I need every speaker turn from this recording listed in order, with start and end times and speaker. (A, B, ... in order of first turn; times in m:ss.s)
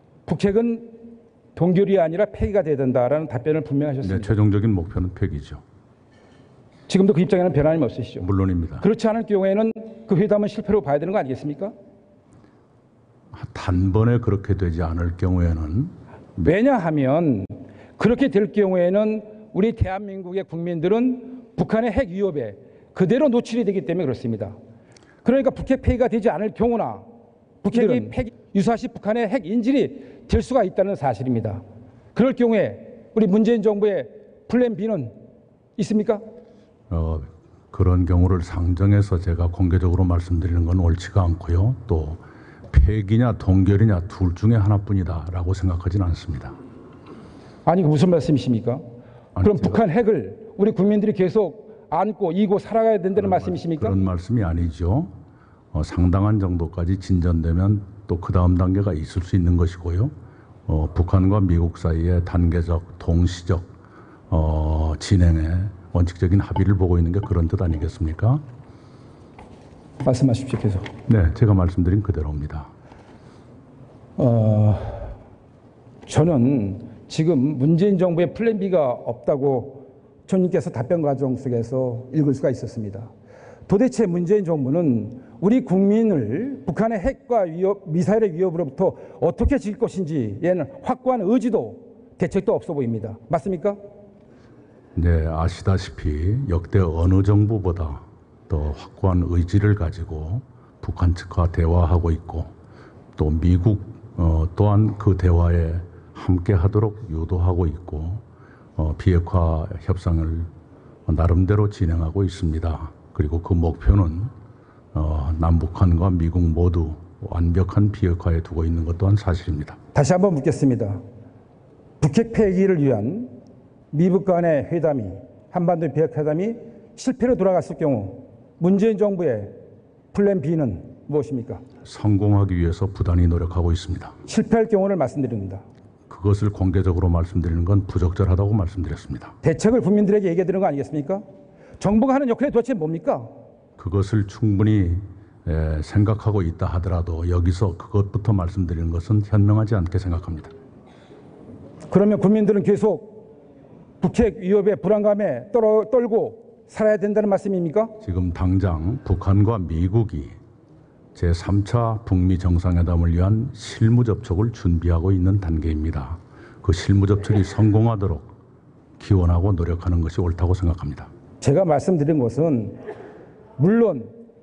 0:00.3-0:04.4 A
0:04.0-0:05.6 B
0:06.9-0:08.3 A
0:08.2-0:08.8 B
0:08.8-0:11.7 A
0:13.3-0:16.4 B
0:16.4-0:24.6 A
0:25.2-0:27.0 A
0:27.6-0:31.6 A
0:32.2-0:35.1 A
0:35.8-0:36.2 A
0:36.9-0:46.6 B
0:47.7-0:48.8 A
0:49.4-0:49.8 B
0:49.4-0:54.0 A
0:53.2-0:55.1 B
0:55.7-1:00.1 B
1:00.7-1:03.7 B
1:04.3-1:08.4 B
1:10.0-1:10.9 A
1:11.1-1:12.7 B
1:14.2-1:15.1 A
1:16.1-1:23.1 A
1:23.7-1:33.8 A
1:35.0-1:42.5 B
1:43.2-1:48.2 B
1:48.8-1:50.5 B
1:51.1-1:54.3 B
1:54.9-1:59.8 B
1:59.9-2:01.0 A
2:02.0-2:03.3 A
2:03.9-2:09.5 A
2:10.1-2:11.6 A
2:11.8-2:14.2 B
2:14.3-2:15.6 A
2:16.1-2:19.4 B
2:19.4-2:21.2 A
2:21.8-2:23.3 A
2:23.8-2:30.5 B
2:31.9-2:33.2 A
2:34.0-2:37.9 A
2:38.0-2:40.3 B
2:41.2-2:48.3 B
2:49.0-2:51.1 B
2:51.4-2:52.8 A
2:53.6-2:54.1 A